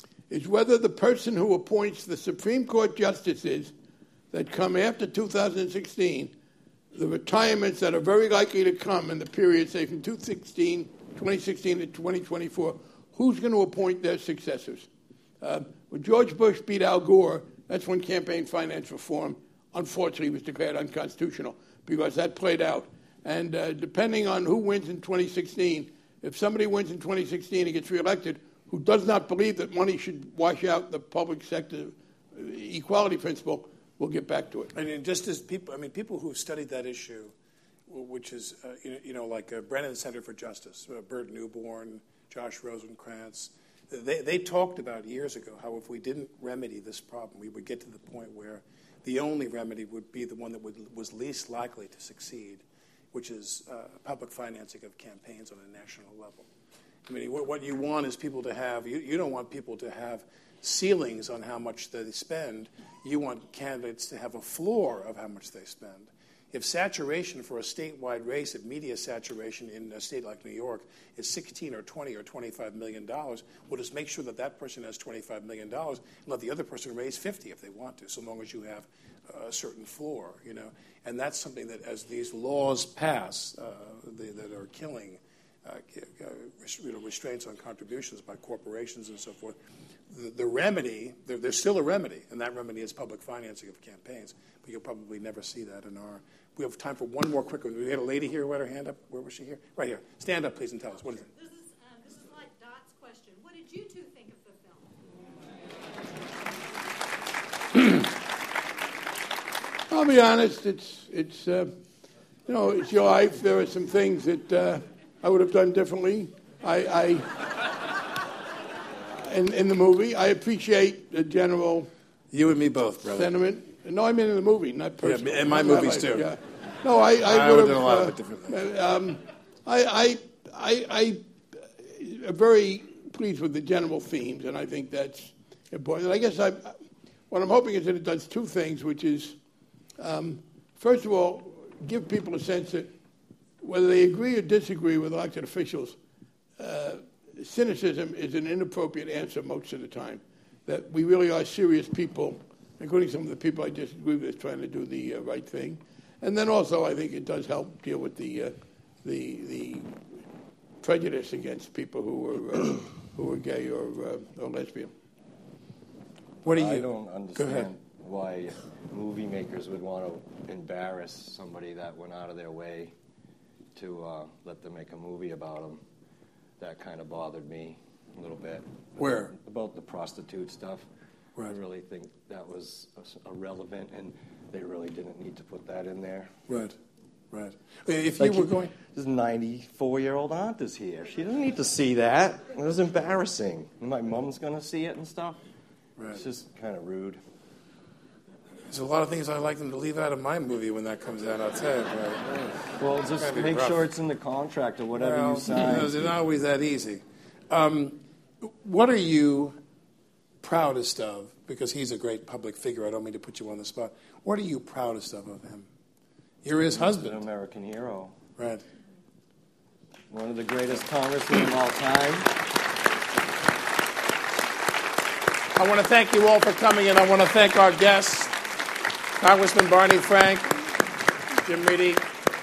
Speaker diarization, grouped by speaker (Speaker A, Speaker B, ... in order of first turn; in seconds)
Speaker A: 0.3-3.7, 4.3-6.3, 6.9-14.9, 15.4-34.7, 109.9-111.7, 112.5-117.3, 119.1-121.9, 123.1-139.4, 140.0-142.9, 143.6-146.0, 146.6-159.9, 160.8-164.9
Speaker B: 34.7-37.3, 37.9-56.5, 57.1-89.6, 90.1-101.3, 122.3-123.3, 125.0-126.3, 127.2-128.6, 166.4-167.7, 179.0-179.3, 186.5-186.8, 187.3-188.7, 196.0-196.2, 198.7-202.4, 203.1-203.9, 204.9-209.6, 210.4-215.7, 216.4-217.2, 218.4-218.6, 225.6-228.3, 229.2-230.7, 231.3-232.1
Speaker C: 101.3-105.0
Speaker D: 166.5-172.9, 173.8-175.8, 176.6-178.7, 179.2-180.9, 181.4-186.4, 188.2-195.4, 196.1-197.2, 202.3-206.1, 216.7-218.2, 220.1-222.3